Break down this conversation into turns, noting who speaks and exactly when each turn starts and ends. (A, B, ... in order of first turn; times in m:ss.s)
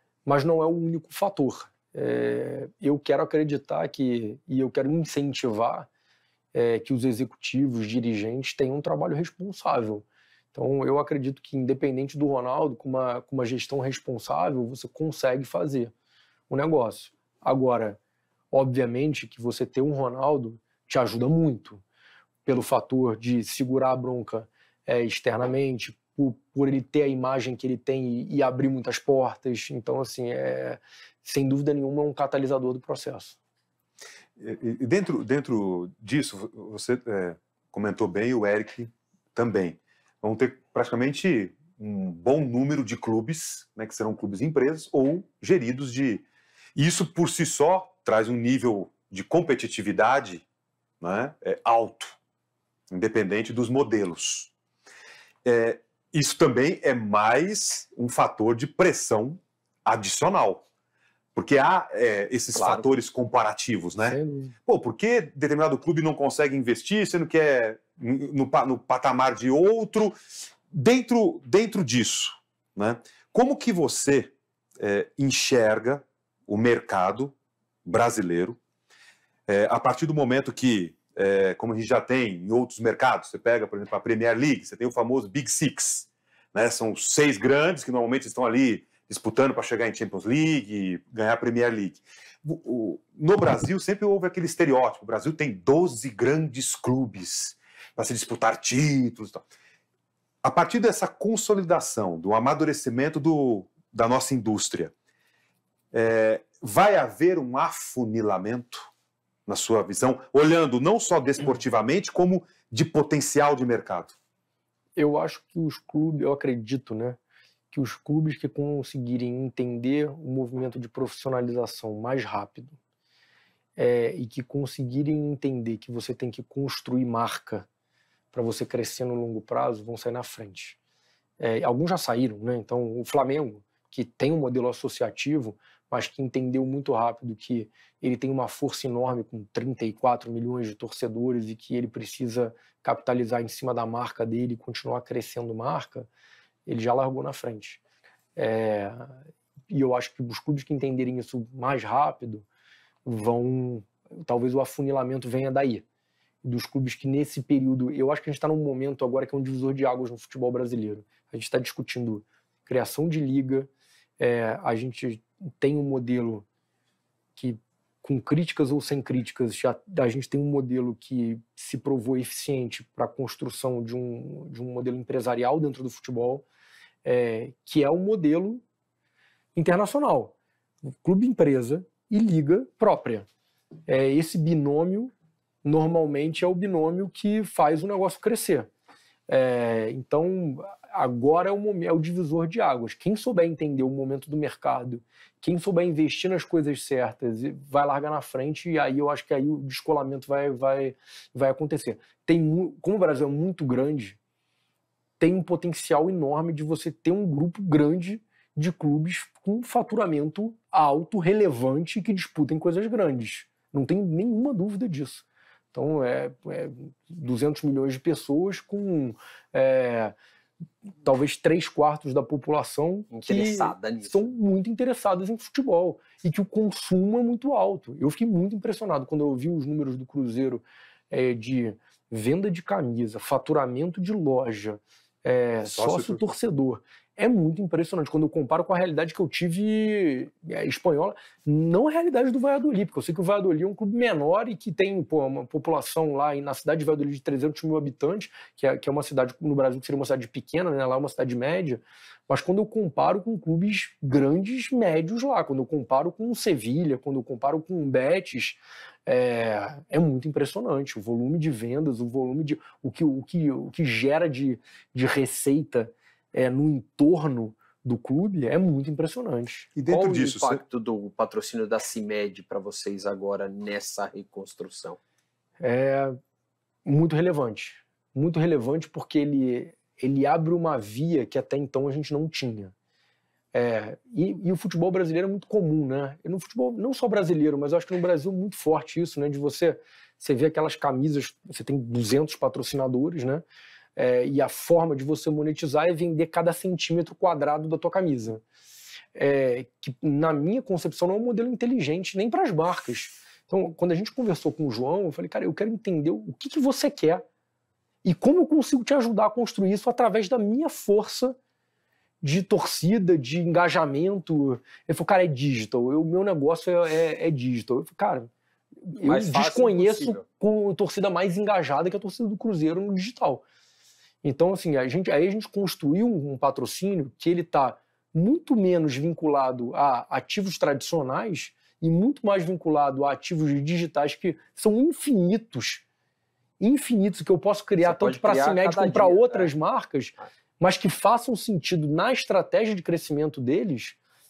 0:00.3-0:05.9 A
0:06.5-0:15.9 A
0:16.5-0:18.0 A
0:18.5-0:21.8 A
0:22.5-0:33.4 A
0:34.4-0:46.2 B
0:46.8-0:50.4 B
0:51.0-0:52.2 B
0:52.9-0:54.5 B
0:55.4-1:00.6 B
1:01.4-1:10.1 B
1:02.6-1:02.9 C
1:04.0-1:04.6 A
1:10.7-1:18.6 B
1:19.5-1:39.4 B
1:40.4-1:44.9 B
1:45.9-1:48.9 B
1:49.5-1:54.1 B
1:55.0-1:57.2 A
1:57.7-2:02.8 A
2:03.8-2:07.7 A
2:08.3-2:10.8 A
2:11.4-2:26.1 A
2:26.7-2:27.8 A
2:28.4-2:32.5 A
2:33.0-2:35.8 A
2:36.4-2:46.4 A
2:47.4-2:56.4 A
2:57.0-2:58.6 A
2:59.6-3:00.3 A
3:00.9-3:03.3 A
3:03.9-3:05.1 A
3:05.6-3:08.7 A
3:09.3-3:24.2 A
3:25.2-3:40.1 A
3:41.0-4:29.7 A
3:43.1-3:44.3 C
3:55.6-3:56.3 B
4:29.8-4:30.6 B
4:29.9-4:35.0 C
4:35.6-4:36.2 A
4:36.8-4:42.7 A
4:43.5-4:53.4 A
4:54.0-4:58.4 A
4:59.1-5:07.2 A
5:08.0-5:11.4 A
5:12.2-5:18.3 A
5:18.9-5:23.4 A
5:19.0-5:20.2 C
5:24.2-5:35.8 A
5:36.6-5:44.0 A
5:37.8-5:39.5 C